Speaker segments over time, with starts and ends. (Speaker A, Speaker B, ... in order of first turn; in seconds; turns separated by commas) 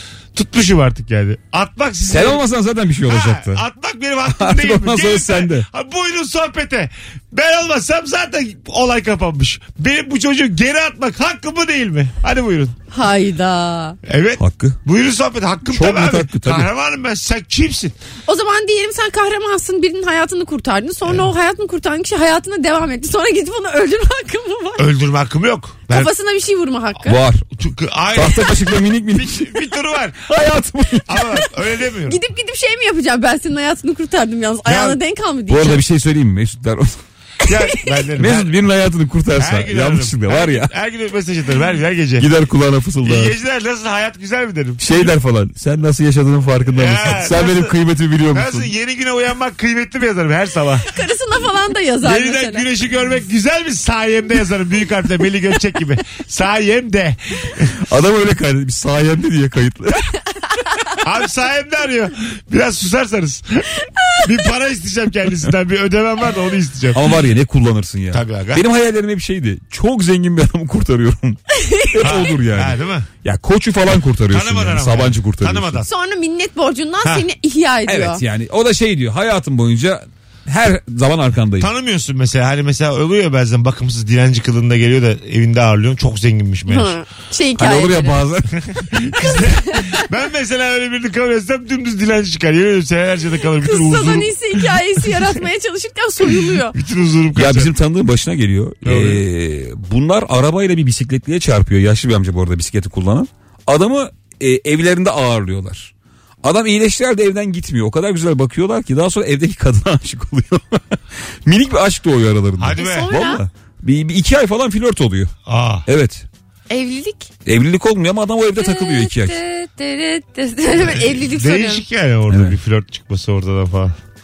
Speaker A: 0.3-2.4, Speaker B: 2.1-3.6, Speaker A: 3.0-12.7, Speaker B: 4.3-5.7, Speaker C: 12.9-14.0, Speaker A: 14.1-17.9, Speaker B: 14.4-14.8, Speaker B: 15.7-16.7, Speaker C: 18.3-24.9, Speaker A: 24.8-26.1, Speaker C: 25.9-27.2, Speaker B: 27.1-27.5, Speaker A: 27.6-30.3, Speaker B: 28.1-29.5, Speaker B: 30.3-31.1, Speaker A: 31.1-32.2, Speaker C: 32.1-35.8, Speaker A: 34.6-35.0, Speaker B: 35.5-37.0, Speaker C: 37.4-37.9, Speaker A: 37.5-38.6, Speaker B: 38.2-40.7, Speaker A: 39.4-42.3, Speaker B: 42.2-43.3, Speaker A: 43.0-45.1, Speaker B: 44.8-48.7, Speaker A: 46.7-47.8, Speaker A: 48.3-50.9, Speaker C: 50.9-52.7, Speaker A: 52.0-57.7, Speaker B: 57.9-60.1, Speaker A: 61.0-67.0, Speaker B: 66.9-71.4, Speaker A: 68.1-68.7, Speaker C: 71.5-72.0, Speaker B: 71.9-75.8, Speaker A: 72.0-73.1, Speaker A: 74.3-75.9, Speaker C: 75.9-78.2, Speaker B: 77.9-81.7, Speaker A: 81.6-87.0, Speaker C: 86.7-88.2, Speaker B: 87.6-88.5, Speaker A: 88.6-95.3, Speaker C: 89.2-90.0, Speaker C: 93.6-96.8, Speaker A: 96.7-97.7, Speaker B: 97.3-105.9, Speaker A: 98.8-99.2, Speaker B: 106.4-110.9, Speaker B: 111.5-115.3, Speaker A: 112.6-113.1, Speaker C: 112.8-113.4, Speaker A: 115.5-115.9, Speaker B: 115.9-116.3, Speaker C: 116.7-117.3, Speaker B: 117.5-119.4, Speaker C: 118.6-121.8, Speaker A: 121.1-124.0, Speaker B: 122.3-122.6